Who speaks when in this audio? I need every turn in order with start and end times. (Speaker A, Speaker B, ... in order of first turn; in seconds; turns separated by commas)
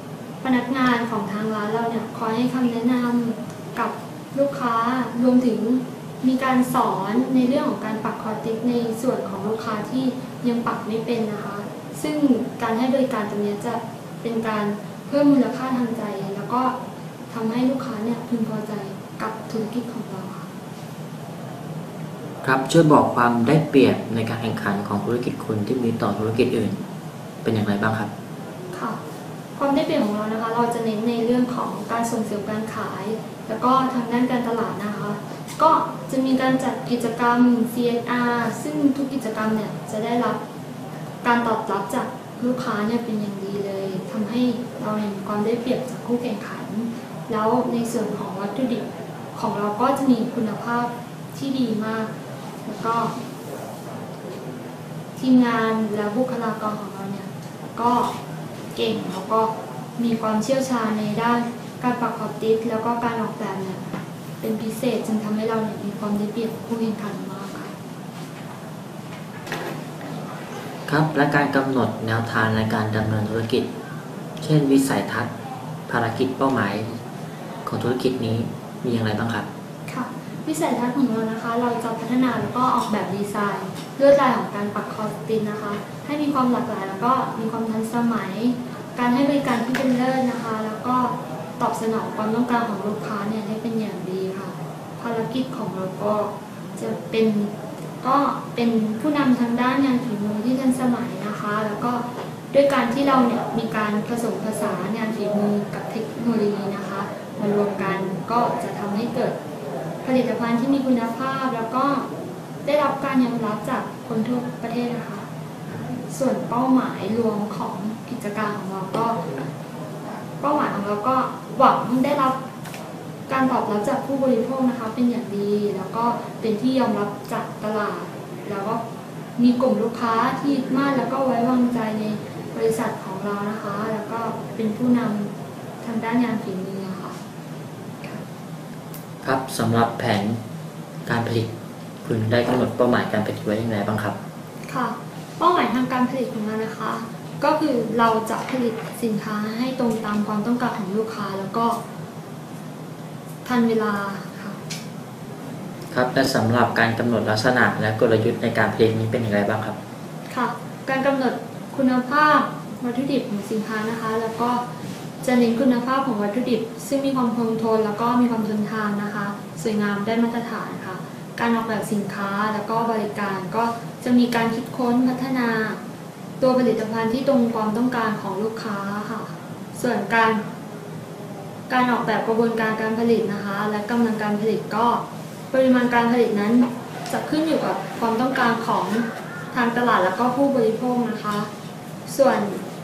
Speaker A: 0.4-16.7, Speaker A: 17.3-20.5, Speaker B: 22.4-26.8, Speaker B: 27.4-28.1, Speaker A: 28.7-29.0, Speaker A: 29.6-40.4, Speaker A: 41.2-52.1, Speaker A: 52.6-53.1, Speaker A: 55.1-58.1, Speaker A: 58.7-63.9, Speaker A: 64.4-67.7, Speaker B: 70.9-73.7, Speaker B: 74.4-75.3, Speaker B: 75.9-76.9, Speaker B: 77.7-79.5, Speaker A: 79.9-109.4, Speaker A: 110.0-112.1, Speaker A: 112.6-115.2, Speaker A: 116.1-119.2, Speaker A: 120.4-122.4, Speaker A: 123.3-128.8, Speaker A: 129.4-137.2, Speaker B: 139.2-140.4, Speaker B: 141.1-141.5, Speaker B: 142.0-144.2, Speaker A: 144.7-151.8, Speaker A: 153.4-154.6, Speaker B: 155.9-159.8, Speaker A: 160.3-164.6, Speaker A: 165.2-175.8, Speaker A: 176.4-180.4, Speaker A: 181.7-191.5, Speaker A: 192.1-192.6